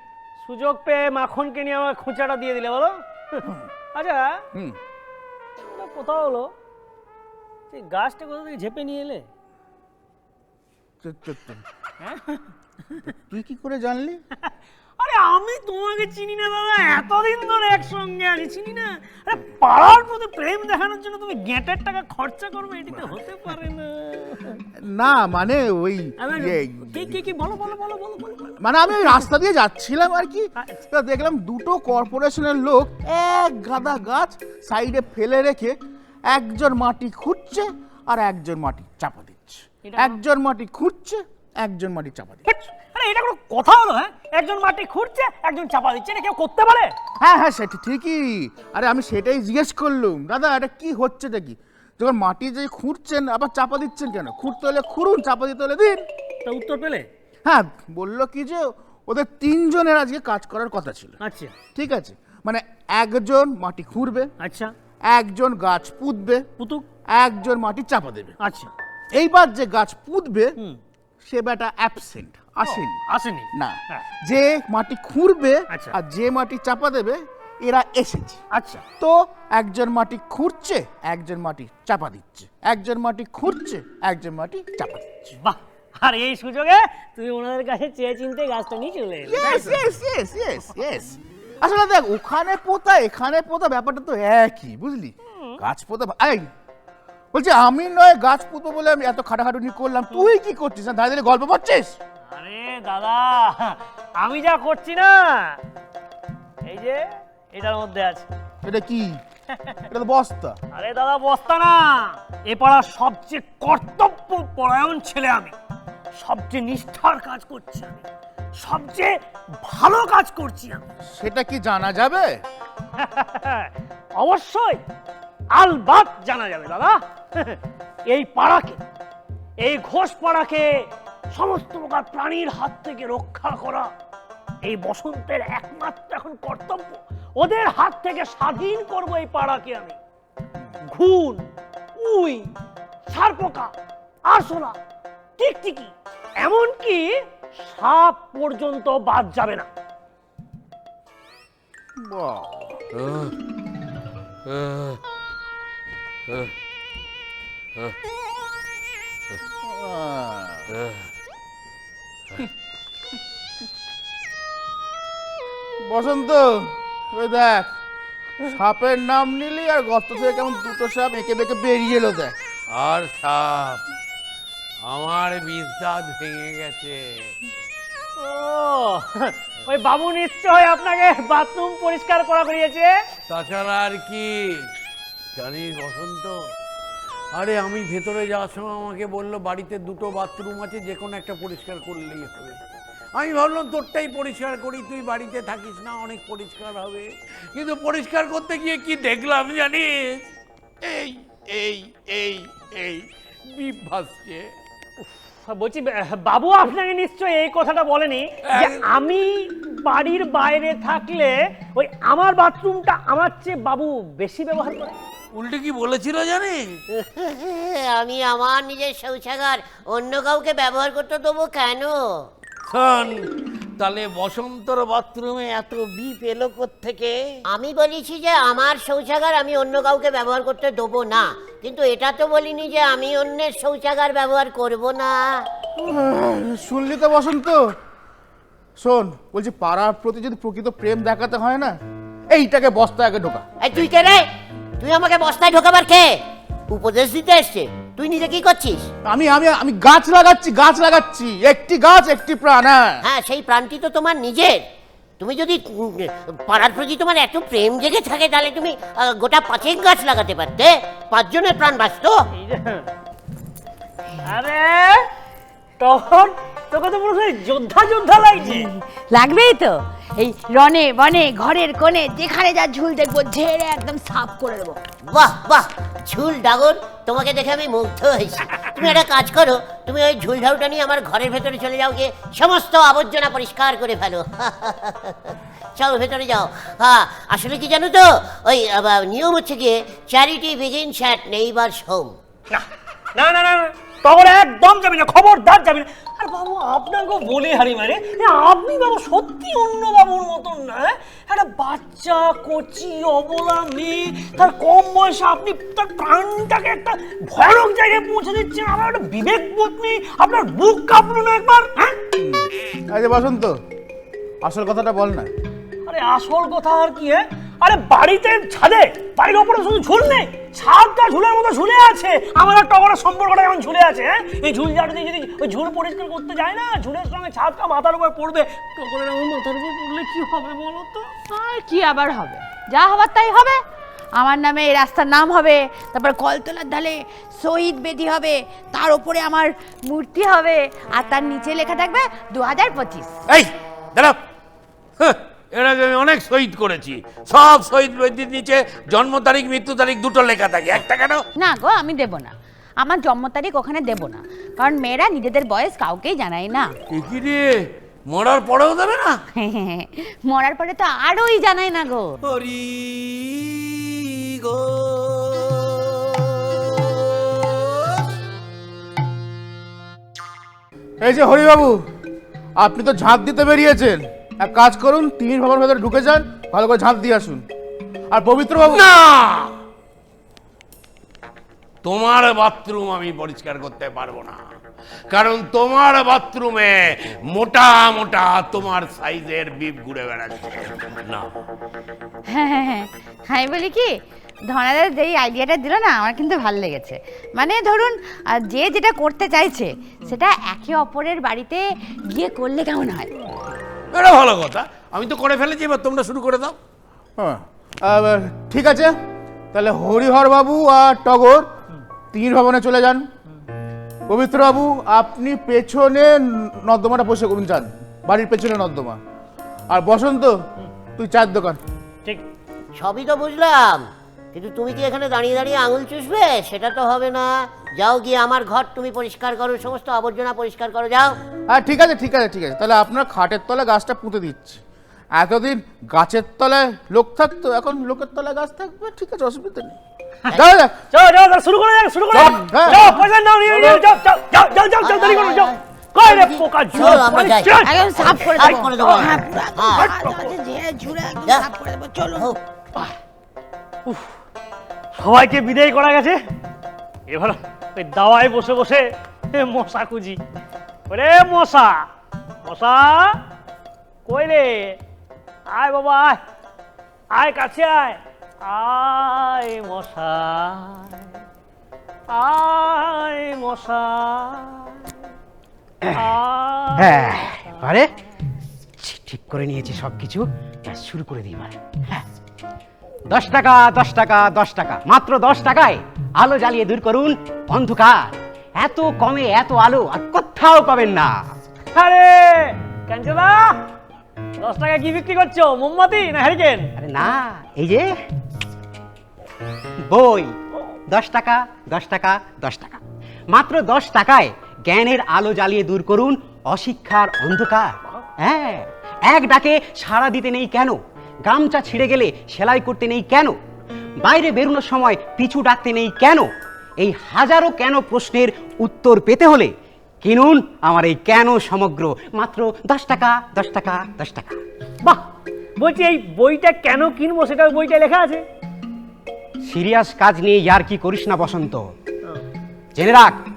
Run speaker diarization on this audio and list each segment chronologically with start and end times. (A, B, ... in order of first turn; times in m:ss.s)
0:00.4-0:04.4 A
0:05.6-0:06.5 A
0:07.7-0:09.3 A
0:11.0-0:11.6 B
0:12.0-0:12.4 A
0:13.0-0:14.2 B
0:15.0-0:24.6 A
0:24.8-0:27.2 B
0:26.2-0:29.2 A
0:28.6-0:35.8 B
0:30.6-0:30.8 A
0:36.3-0:42.6 B
0:39.8-0:40.2 A
0:42.5-0:46.9 A
0:47.2-0:56.1 B
0:56.4-0:57.1 A
0:57.4-1:01.2 B
1:01.2-1:01.5 A
1:01.8-1:04.3 B
1:04.4-1:04.7 A
1:05.1-1:06.5 B
1:06.6-1:06.8 A
1:07.1-1:08.4 B
1:08.4-1:08.7 A
1:09.1-1:10.6 B
1:11.2-1:13.0 B
1:12.6-1:14.0 A
1:13.5-1:25.3 B
1:15.7-1:16.0 A
1:18.5-1:18.8 A
1:25.4-1:29.8 A
1:29.3-1:36.5 B
1:35.3-1:35.6 A
1:37.3-1:42.0 B
1:42.3-1:45.6 A
1:46.7-1:48.3 A
1:48.6-1:49.2 B
1:49.9-1:50.6 B
1:50.7-1:55.6 A
1:56.2-1:58.0 A
1:58.6-2:00.8 A
2:01.1-2:02.4 B
2:03.0-2:04.8 A
2:05.6-2:08.8 A
2:09.6-2:10.7 A
2:11.3-2:13.9 A
2:14.6-2:20.0 A
2:20.8-2:21.4 A
2:22.0-2:22.5 A
2:23.1-2:23.7 A
2:24.3-2:24.8 A
2:25.4-2:29.7 A
2:32.0-2:32.8 B
2:32.9-2:33.3 C
2:34.4-2:35.0 C
2:36.3-2:36.5 C
2:39.6-2:40.7 B
2:40.7-2:41.0 C
2:45.8-2:47.7 B
2:48.4-2:52.4 B
2:52.7-2:53.8 C
2:54.9-2:57.4 C
2:58.2-3:02.9 A
3:03.3-3:04.7 C
3:05.4-3:06.4 C
3:07.4-3:12.6 C
3:13.2-3:20.3 C
3:20.8-3:24.5 C
3:25.3-3:35.0 A
3:28.5-3:28.8 C
3:35.4-3:36.8 C
3:36.9-3:42.3 D
3:42.7-3:43.3 C
3:43.8-3:47.2 C
3:47.5-3:55.4 D
3:55.8-3:57.8 B
3:58.8-4:01.8 B
4:02.3-4:03.5 B
4:03.6-4:04.3 D
4:04.8-4:06.2 D
4:06.7-4:08.9 D
4:09.0-4:13.0 B
4:13.0-4:14.6 D
4:15.2-4:22.2 D
4:22.3-4:22.9 A
4:24.2-4:25.1 A
4:25.8-4:28.7 A
4:28.5-4:34.8 E
4:35.1-4:52.2 D
4:52.5-5:12.0 A
5:12.2-5:13.6 B
5:14.4-5:15.3 B
5:15.8-5:31.1 A
5:31.3-5:33.6 E
5:34.2-5:43.2 E
5:43.3-5:44.2 C
5:45.0-5:51.2 C
5:51.4-5:56.7 E
5:56.9-5:59.2 C
5:59.4-6:02.2 E
6:02.2-6:06.4 C
6:11.0-6:11.8 B
6:12.6-6:17.5 B
6:18.1-6:18.8 B
6:18.6-6:19.5 C
6:21.8-6:24.4 C
6:25.1-6:31.3 C
6:32.3-6:33.9 E
6:34.5-6:43.1 E
6:43.9-6:46.6 C
6:47.2-6:49.0 B
6:49.5-6:51.5 B
6:52.1-6:53.1 B
6:54.1-6:59.0 B
6:59.7-7:00.4 B
7:01.0-7:01.6 B
7:02.8-7:11.2 D
7:11.5-7:14.6 B
7:15.2-7:19.8 B
7:20.3-7:20.8 B
7:20.9-7:30.4 A
7:22.4-7:23.0 B
7:24.8-7:29.9 D
7:27.6-7:32.3 E
7:33.9-7:34.1 A
7:35.0-7:36.2 A
7:37.1-7:40.2 A
7:40.9-7:41.9 A
7:42.4-7:43.2 A
7:44.1-7:44.8 A
7:45.5-7:46.2 A
7:47.1-7:51.1 A
7:52.1-7:55.0 A
7:56.0-7:57.2 A
7:56.8-7:57.9 F
7:58.8-8:02.0 F
8:03.1-8:11.2 F
8:11.8-8:13.6 A
8:14.4-8:16.7 A
8:16.8-8:17.9 F
8:19.9-8:20.3 F
8:20.9-8:33.4 F
8:34.0-8:36.3 F
8:36.8-8:39.5 F
8:40.0-8:44.4 F
8:45.6-8:48.2 A
8:49.5-8:51.6 F
8:52.8-8:53.2 F